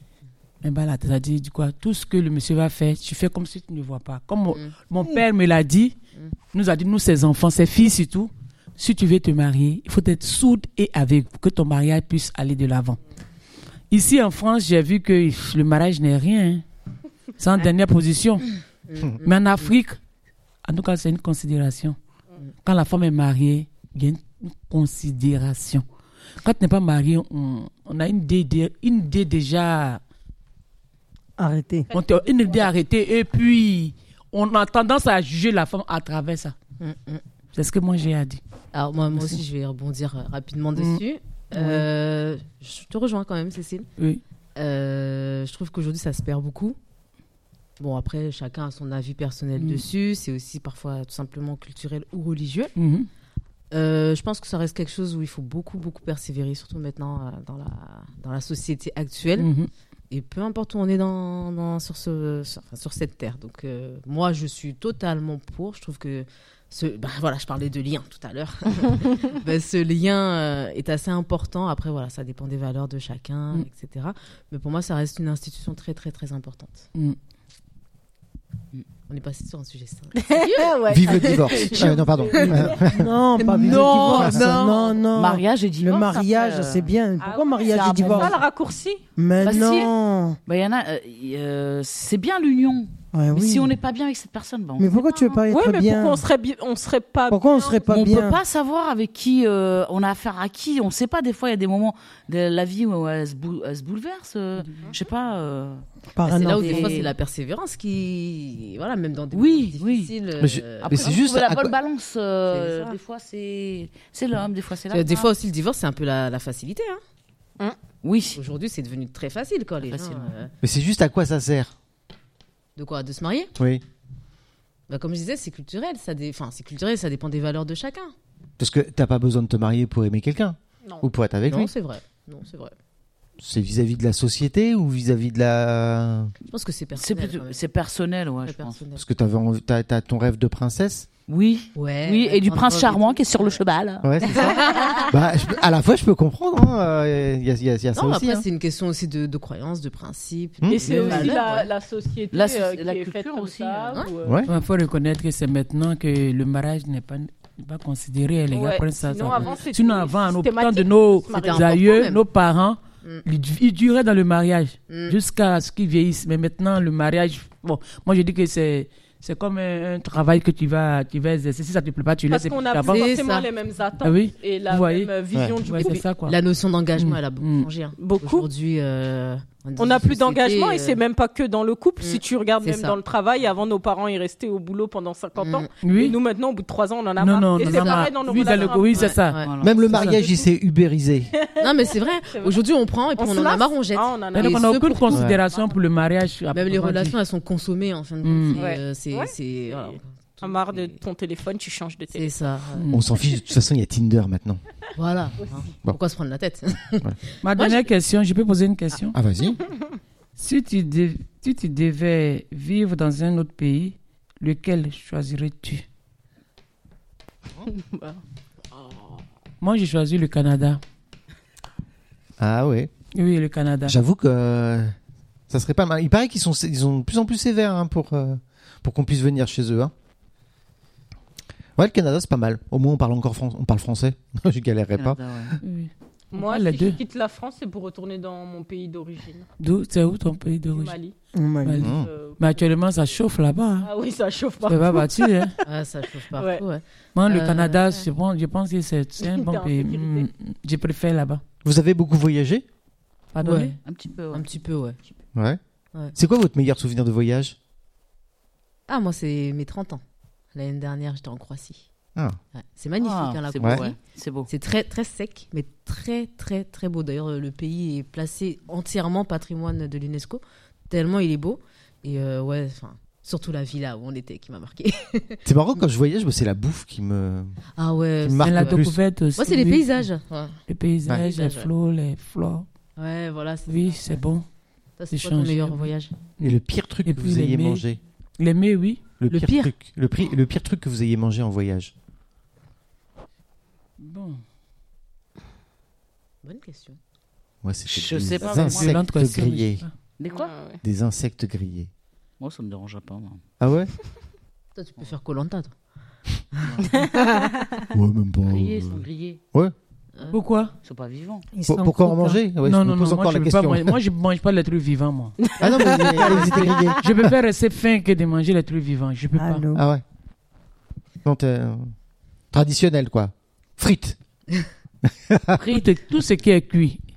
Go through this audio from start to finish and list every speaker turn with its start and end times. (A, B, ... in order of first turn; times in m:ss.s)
0:00.6-0:05.9 A
0:06.5-0:13.0 A
0:13.9-0:16.6 A
0:17.4-0:18.4 A
0:18.9-0:19.3 B
0:19.2-0:20.0 A
0:20.6-0:22.0 A
0:22.6-0:25.8 A
0:26.4-0:30.0 A
0:31.4-0:31.9 C
0:31.9-0:32.7 D
0:31.9-0:36.5 A
0:36.8-0:37.2 B
0:37.5-0:38.4 A
0:38.7-0:43.9 B
0:40.8-0:41.0 A
0:44.6-0:46.8 B
0:47.8-0:52.7 B
0:49.6-0:49.8 A
0:52.8-0:53.1 A
0:53.7-0:59.5 B
0:59.4-0:59.7 A
1:00.1-1:16.9 B
1:19.1-1:21.6 B
1:20.2-1:22.9 D
1:20.9-1:23.1 E
1:22.9-1:28.4 C
1:23.4-1:24.6 B
1:23.6-1:26.9 F
1:23.7-1:24.3 D
1:27.2-1:29.0 D
1:27.7-1:28.4 F
1:29.2-1:30.4 C
1:29.4-1:29.9 F
1:30.4-1:35.0 F
1:33.1-1:33.7 C
1:34.8-1:36.2 C
1:35.4-1:37.8 D
1:37.3-1:38.4 C
1:37.9-1:45.8 F
1:46.1-1:47.0 C
1:46.2-1:51.2 B
1:46.5-1:47.1 F
1:49.3-1:50.1 F
1:50.4-1:51.7 E
1:50.8-1:55.3 F
1:52.5-1:52.9 B
1:54.9-1:57.0 B
1:58.0-1:58.4 F
1:58.3-2:00.5 B
1:59.8-2:00.3 F
2:00.6-2:01.7 E
2:02.8-2:03.5 B
2:03.6-2:03.8 E
2:04.9-2:08.1 B
2:08.6-2:11.7 E
2:10.8-2:11.1 D
2:11.5-2:12.7 B
2:13.4-2:16.3 E
2:16.5-2:17.6 B
2:17.0-2:18.8 F
2:18.4-2:19.0 B
2:19.0-2:21.1 E
2:21.3-2:24.8 F
2:21.7-2:23.6 B
2:24.0-2:28.4 E
2:24.3-2:25.1 B
2:27.9-2:31.7 B
2:30.7-2:34.5 D
2:30.9-2:31.4 F
2:32.3-2:34.1 F
2:34.2-2:34.5 E
2:34.5-2:53.1 A
2:38.5-2:42.0 D
2:41.3-2:42.2 B
2:44.9-2:45.2 B
2:52.3-2:56.0 D
2:52.8-2:53.5 B
2:54.0-2:55.1 A
2:55.6-2:56.4 A
2:55.7-3:01.0 B
2:57.0-2:57.7 A
2:58.0-2:58.5 D
2:59.8-3:09.2 D
3:02.0-3:03.0 B
3:05.4-3:05.7 B
3:05.8-3:06.2 A
3:07.2-3:09.4 A
3:07.6-3:09.5 B
3:09.4-3:09.9 F
3:09.6-3:11.3 E
3:10.0-3:10.3 D
3:11.3-3:12.6 D
3:11.6-3:15.2 B
3:13.2-3:15.7 D
3:14.3-3:17.2 A
3:15.1-3:15.4 E
3:16.5-3:21.0 B
3:18.2-3:18.6 A
3:18.6-3:22.3 D
3:22.1-3:22.8 B
3:22.8-3:23.1 A
3:22.9-3:24.6 E
3:25.0-3:27.9 B
3:27.4-3:29.2 A
3:29.1-3:29.6 E
3:30.4-3:35.8 A
3:37.6-3:38.2 D
3:39.6-3:40.8 A
3:42.4-3:42.9 E
3:43.1-3:44.0 A
3:43.8-3:44.9 E
3:45.5-3:49.9 E
3:51.8-3:55.2 E
3:54.9-3:55.5 F
3:55.6-3:57.0 A
3:56.3-3:59.5 D
3:59.6-4:01.0 A
4:00.7-4:01.2 D
4:01.3-4:01.9 C
4:01.6-4:03.9 A
4:01.8-4:02.1 E
4:01.9-4:02.7 D
4:03.8-4:05.5 D
4:04.6-4:05.5 A
4:05.6-4:08.0 B
4:06.3-4:06.6 D
4:07.1-4:11.4 A
4:09.2-4:10.3 D
4:11.6-4:12.6 E
4:13.3-4:13.8 A
4:13.4-4:13.7 B
4:13.8-4:14.4 F
4:14.3-4:15.0 B
4:15.3-4:15.6 E
4:16.1-4:17.6 E
4:18.9-4:20.0 B
4:20.5-4:21.8 B
4:22.5-4:24.0 B
4:23.0-4:24.5 F
4:23.6-4:23.8 E
4:24.5-4:35.4 B
4:35.4-4:37.5 E
4:37.8-4:38.8 B
4:38.2-4:39.0 E
4:38.4-4:40.0 A
4:39.4-4:41.7 B
4:40.7-4:42.6 A
4:43.0-4:44.2 B
4:43.7-4:44.4 A
4:45.0-4:46.1 B
4:45.1-4:45.8 A
4:46.4-4:47.8 A
4:46.4-4:48.0 E
4:48.4-4:49.0 A
4:49.2-4:51.9 E
4:49.3-4:49.7 B
4:54.0-4:54.4 A
4:56.4-4:57.0 B
4:57.6-4:59.8 E
4:57.9-4:59.0 F
4:58.4-4:59.9 A
5:00.2-5:00.5 F
5:00.3-5:00.8 D
5:00.8-5:01.9 E
5:02.4-5:03.4 F
5:03.6-5:03.9 E
5:04.8-5:05.7 B
5:06.5-5:07.4 B
5:06.9-5:07.8 D
5:07.9-5:09.7 E
5:08.5-5:09.4 F
5:10.3-5:10.7 A
5:10.8-5:11.4 F
5:11.5-5:12.4 C
5:11.7-5:14.0 E
5:12.6-5:15.4 A
5:15.4-5:17.0 D
5:15.6-5:17.3 E
5:17.0-5:19.6 A
5:19.4-5:19.8 C
5:19.7-5:20.0 E
5:21.2-5:21.9 E
5:22.5-5:24.2 E
5:25.0-5:25.6 E
5:25.6-5:27.0 A